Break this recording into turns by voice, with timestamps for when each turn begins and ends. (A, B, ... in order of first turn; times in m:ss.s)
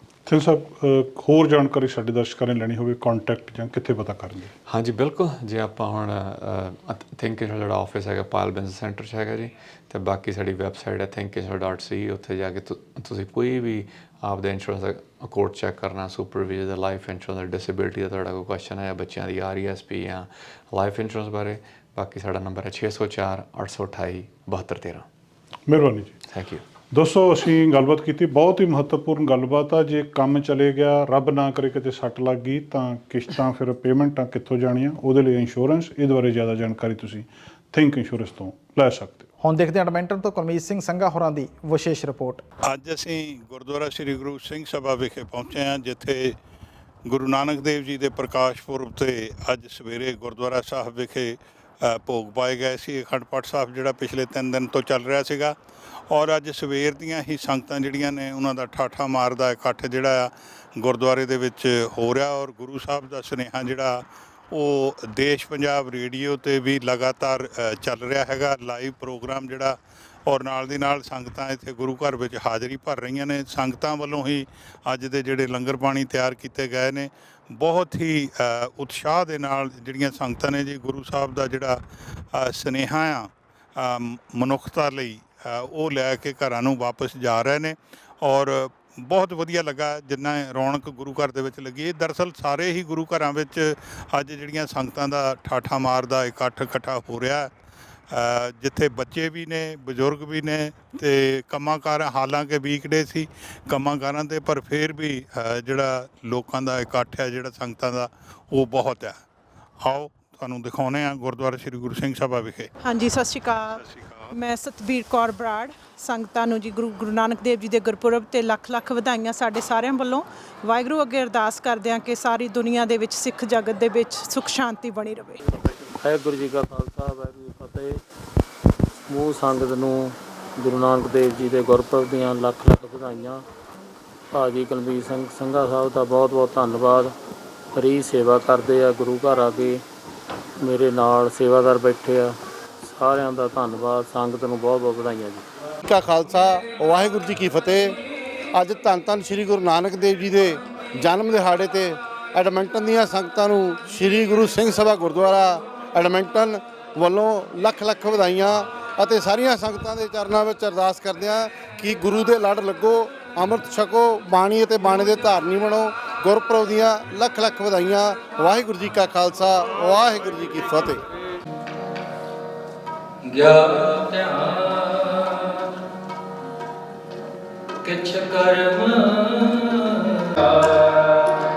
0:00.3-0:04.5 A
0:04.7-0:25.1 B
0:25.7-0:26.1 A
0:26.3-0:26.6 B
0:26.9-0:39.3 A
0:39.4-0:42.4 C
0:42.6-0:46.4 D
0:47.1-0:55.6 D
0:56.1-1:37.5 D
1:38.1-1:49.2 D
1:49.8-1:52.7 D
1:52.8-2:05.4 E
1:53.8-1:54.3 D
2:06.0-2:08.0 F
2:09.1-2:13.4 F
2:14.3-2:17.1 F
2:17.7-2:19.8 F
2:20.6-2:25.4 F
2:25.8-2:28.0 G
2:28.5-2:51.0 G
2:53.2-2:55.6 H
2:57.8-3:01.4 H